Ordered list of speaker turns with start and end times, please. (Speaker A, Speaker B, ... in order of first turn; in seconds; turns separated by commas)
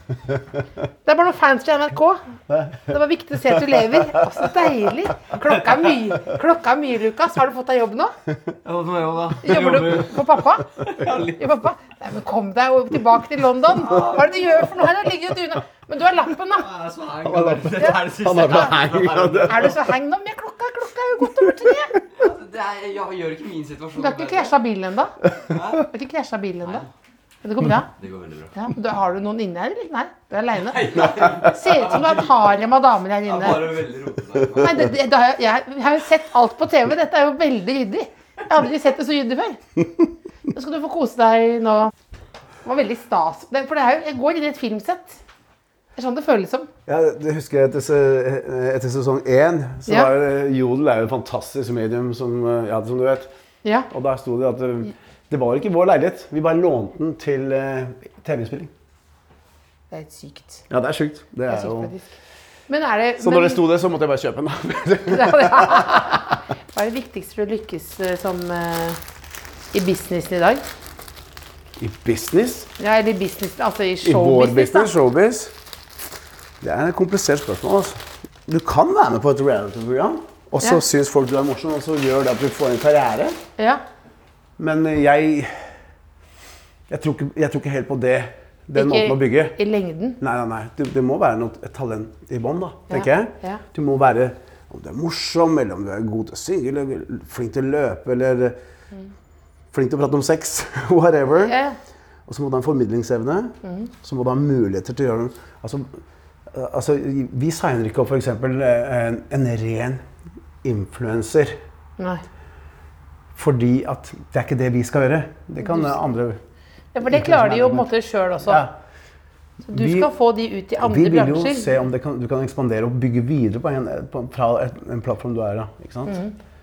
Speaker A: 1.0-2.2, Speaker B: 2.5-2.9, Speaker A: 2.9-8.1, Speaker C: 8.6-10.1, Speaker B: 9.4-10.0, Speaker A: 9.4-16.7, Speaker C: 10.9-11.3, Speaker C: 13.8-14.3, Speaker C: 16.6-19.7, Speaker B: 17.2-19.8, Speaker A: 17.8-18.6, Speaker A: 19.4-22.0, Speaker C: 22.2-24.5, Speaker A: 24.0-25.2, Speaker C: 25.5-25.8, Speaker A: 25.7-26.9, Speaker A: 27.4-27.9, Speaker C: 28.0-28.5, Speaker A: 28.5-33.9, Speaker C: 30.6-32.3, Speaker C: 33.2-34.9, Speaker A: 34.5-39.6, Speaker A: 40.5-41.9, Speaker A: 42.6-45.2, Speaker A: 45.9-46.7, Speaker B: 46.9-53.3, Speaker A: 53.6-53.9, Speaker B: 53.9-58.7, Speaker A: 59.9-60.6, Speaker B: 60.7-61.9, Speaker A: 61.5-62.1, Speaker A: 62.7-63.6, Speaker B: 63.2-66.2, Speaker A: 65.1-69.0, Speaker A: 69.7-70.7, Speaker B: 71.8-72.7, Speaker A: 72.8-74.9, Speaker B: 74.0-75.5, Speaker B: 76.6-83.4, Speaker B: 84.6-85.7, Speaker B: 86.9-89.6, Speaker A: 88.7-90.2, Speaker B: 90.2-98.6, Speaker A: 92.9-93.6, Speaker B: 99.7-101.6, Speaker A: 101.4-101.8, Speaker B: 102.3-106.0, Speaker A: 103.6-103.9, Speaker B: 106.5-110.0, Speaker B: 110.6-111.6, Speaker A: 112.0-112.2, Speaker B: 113.3-116.4, Speaker A: 115.6-115.9, Speaker A: 116.9-118.6, Speaker B: 117.0-118.7, Speaker A: 119.6-121.8, Speaker B: 119.7-120.1, Speaker B: 120.8-126.2, Speaker A: 126.1-126.3